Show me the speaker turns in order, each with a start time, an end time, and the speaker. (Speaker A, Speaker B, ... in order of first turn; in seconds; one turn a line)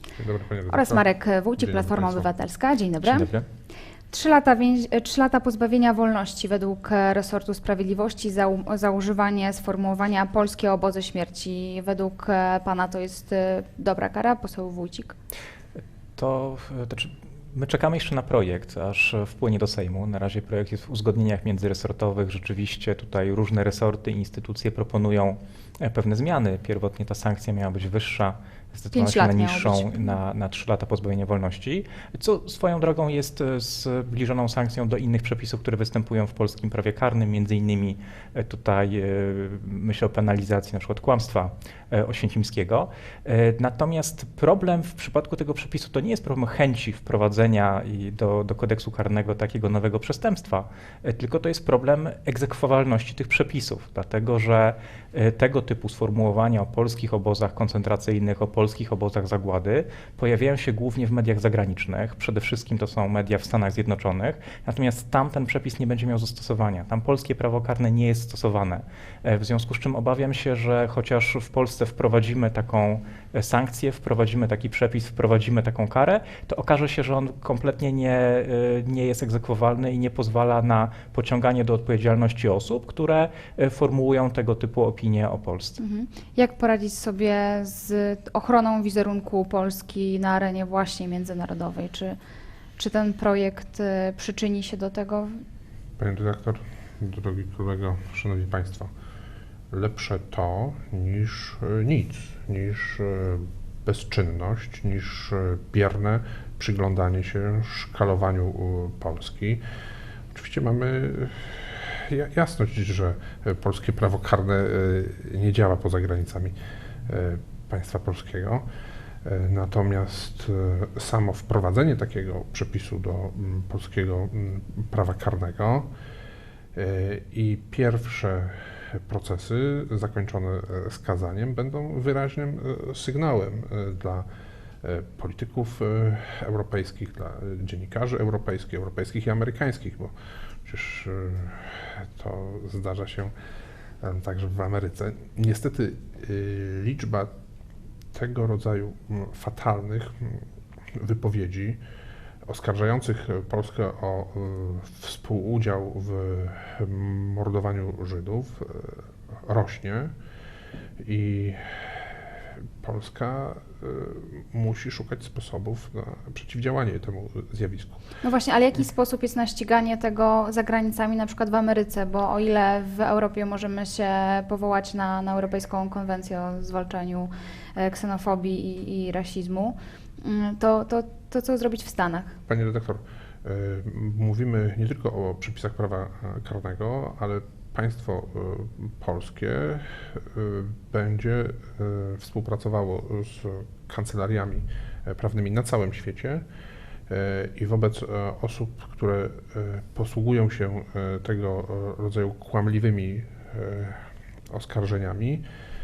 Speaker A: 0.1-2.3
Speaker B: 0.7-3.3
Speaker C: 3.0-3.5
Speaker B: 4.1-15.2
Speaker C: 16.1-85.8
Speaker B: 28.9-30.1
Speaker B: 85.8-92.2
Speaker B: 92.8-95.4
Speaker A: 96.0-98.9
Speaker A: 99.7-109.6
Speaker A: 110.3-116.5
Speaker A: 117.1-118.6
Speaker A: 119.2-125.9
Speaker A: 126.7-134.2
Speaker A: 134.8-140.1
Speaker A: 140.6-143.3
Speaker A: 144.0-147.3
Speaker A: 148.1-151.8
Speaker A: 152.4-160.1
Speaker A: 161.0-162.1
Speaker A: 162.8-168.0
Speaker B: 168.2-182.4
Speaker A: 182.5-196.4
Speaker A: 197.1-205.4